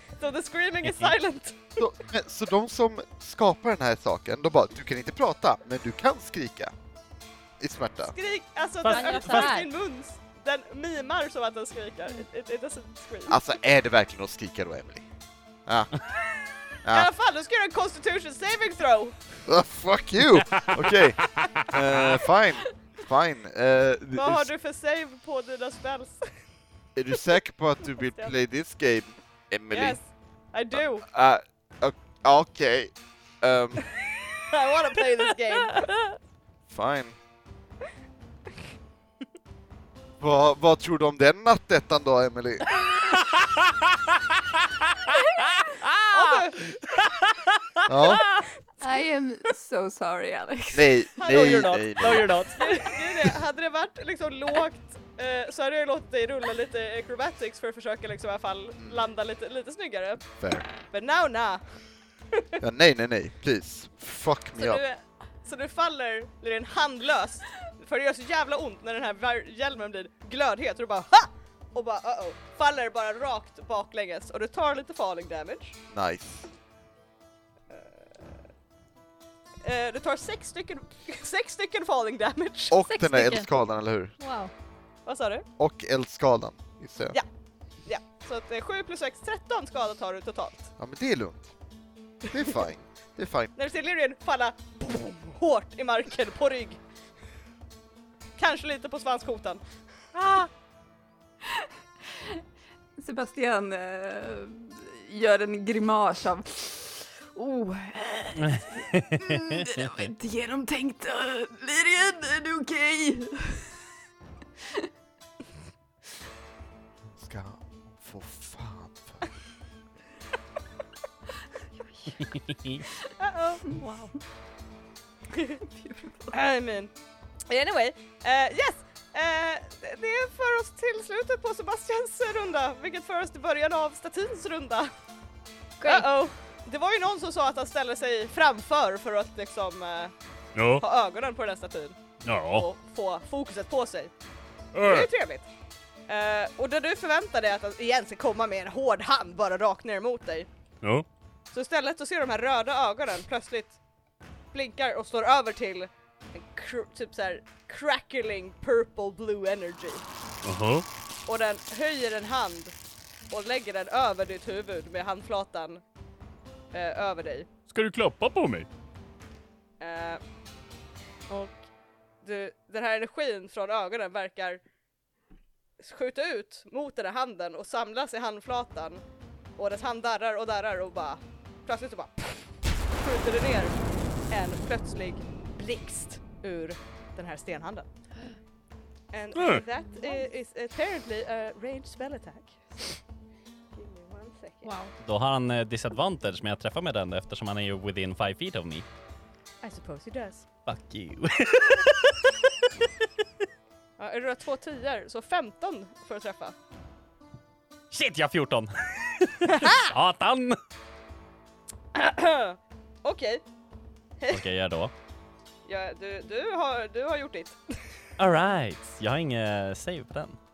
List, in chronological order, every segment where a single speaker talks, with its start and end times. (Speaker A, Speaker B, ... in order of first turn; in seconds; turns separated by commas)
Speaker A: 0.2-1.8, Speaker B: 1.8-6.7, Speaker B: 7.6-8.2, Speaker A: 8.1-13.4, Speaker C: 8.9-9.5, Speaker D: 8.9-9.7, Speaker B: 13.3-15.1, Speaker B: 15.7-15.9, Speaker B: 16.8-17.1, Speaker A: 16.9-19.1, Speaker B: 19.4-24.5, Speaker C: 21.4-22.2, Speaker A: 24.1-26.3, Speaker B: 26.9-30.0, Speaker A: 28.1-28.3, Speaker A: 29.7-31.1, Speaker B: 30.7-34.0, Speaker A: 34.5-36.1, Speaker B: 36.7-37.2, Speaker B: 40.2-42.7, Speaker C: 45.1-47.8, Speaker A: 46.1-46.7, Speaker B: 47.9-48.3, Speaker E: 48.8-51.0, Speaker B: 50.7-52.4, Speaker A: 51.2-51.7, Speaker C: 51.3-52.8, Speaker A: 52.5-60.3, Speaker B: 58.8-59.0, Speaker B: 60.4-60.7, Speaker A: 60.9-61.6, Speaker B: 62.6-64.8, Speaker A: 64.6-75.8, Speaker B: 75.9-76.5, Speaker A: 77.7-78.2, Speaker A: 79.6-82.8, Speaker B: 82.7-84.1, Speaker D: 82.9-83.5, Speaker D: 84.2-84.5, Speaker A: 85.1-85.5, Speaker B: 85.6-87.2, Speaker A: 87.9-90.7, Speaker B: 90.8-91.4, Speaker B: 92.3-93.5, Speaker A: 93.6-96.8, Speaker A: 98.4-99.6, Speaker A: 100.1-100.5, Speaker E: 103.0-113.7, Speaker C: 108.4-110.0, Speaker B: 117.1-119.3, Speaker C: 122.2-122.8, Speaker A: 123.2-123.7, Speaker E: 125.7-126.3, Speaker A: 126.3-126.9, Speaker A: 127.5-134.9, Speaker D: 135.8-136.1, Speaker A: 135.8-140.1, Speaker F: 140.6-140.8, Speaker A: 140.8-142.0, Speaker F: 142.2-142.7, Speaker A: 142.5-144.1, Speaker F: 144.7-145.1, Speaker A: 144.8-145.5, Speaker A: 146.1-150.5, Speaker A: 151.5-153.8, Speaker A: 154.5-160.0, Speaker F: 160.4-160.9, Speaker A: 161.3-162.7, Speaker A: 163.3-165.8, Speaker A: 166.7-167.5, Speaker F: 167.7-168.7, Speaker A: 169.8-170.2, Speaker A: 171.3-171.6, Speaker A: 172.2-174.6, Speaker A: 175.8-179.0, Speaker A: 179.6-187.9, Speaker A: 189.1-193.0, Speaker F: 189.3-189.7, Speaker A: 193.7-194.7, Speaker D: 194.6-194.9, Speaker C: 195.0-198.8, Speaker A: 199.6-200.4, Speaker C: 200.7-202.8, Speaker A: 204.0-206.6, Speaker C: 207.9-210.6, Speaker A: 209.5-209.9, Speaker A: 211.9-213.4, Speaker C: 214.3-214.9, Speaker A: 215.7-217.6, Speaker C: 218.2-220.4